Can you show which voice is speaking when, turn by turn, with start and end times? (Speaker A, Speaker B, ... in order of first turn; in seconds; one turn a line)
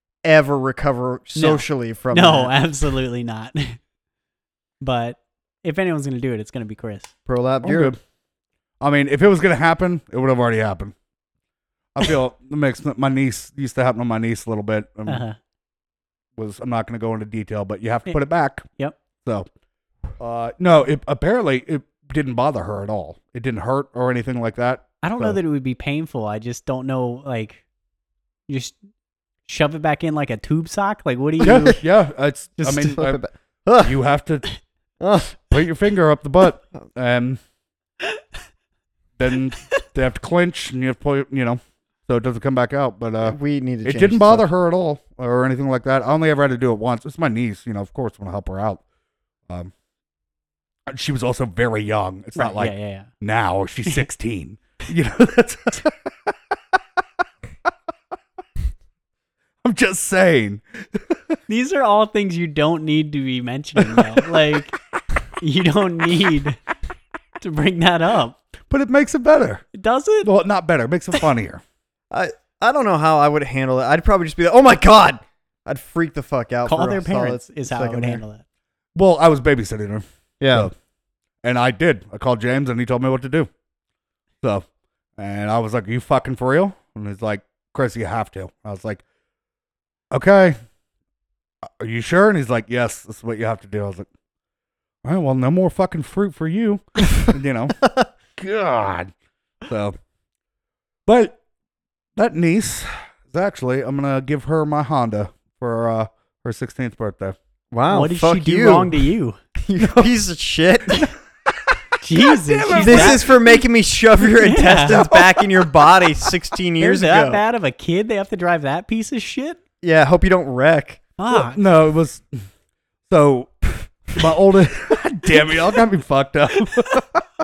Speaker A: 0.2-2.5
Speaker B: 1.3-3.8
Speaker B: 4.8-7.1
Speaker A: 7.3-7.9
Speaker C: 7.6-8.0
Speaker C: 8.8-10.9
Speaker C: 11.9-15.2
Speaker B: 15.1-15.4
Speaker C: 16.4-18.6
Speaker C: 20.2-25.4
Speaker B: 25.0-27.6
Speaker B: 28.5-28.8
Speaker B: 29.5-31.8
Speaker A: 31.4-31.8
Speaker C: 31.4-33.2
Speaker B: 32.6-33.0
Speaker A: 32.9-33.9
Speaker C: 33.8-34.5
Speaker A: 35.0-35.4
Speaker C: 35.5-37.4
Speaker C: 39.2-48.8
Speaker A: 43.2-44.5
Speaker C: 50.9-56.3
Speaker B: 52.4-53.1
Speaker C: 59.6-61.2
Speaker B: 61.5-64.8
Speaker C: 63.8-64.4
Speaker B: 65.4-66.6
Speaker B: 67.4-68.4
Speaker C: 68.7-69.6
Speaker B: 69.7-70.3
Speaker C: 70.2-71.6
Speaker A: 72.1-78.2
Speaker B: 76.7-78.4
Speaker C: 78.9-80.7
Speaker A: 80.4-80.7
Speaker C: 81.4-83.5
Speaker C: 85.2-89.0
Speaker C: 90.1-90.5
Speaker C: 91.7-94.1
Speaker C: 95.0-97.8
Speaker C: 98.4-99.1
Speaker C: 99.7-100.0
Speaker C: 101.1-101.4
Speaker C: 102.2-107.3
Speaker A: 107.7-108.9
Speaker B: 107.9-109.4
Speaker A: 109.6-111.1
Speaker C: 109.8-110.1
Speaker C: 110.9-113.4
Speaker B: 112.0-113.2
Speaker A: 112.8-117.4
Speaker B: 114.4-115.0
Speaker C: 114.9-115.5
Speaker B: 116.8-119.6
Speaker A: 119.8-121.0
Speaker B: 121.2-121.6
Speaker C: 121.5-122.4
Speaker C: 123.1-127.2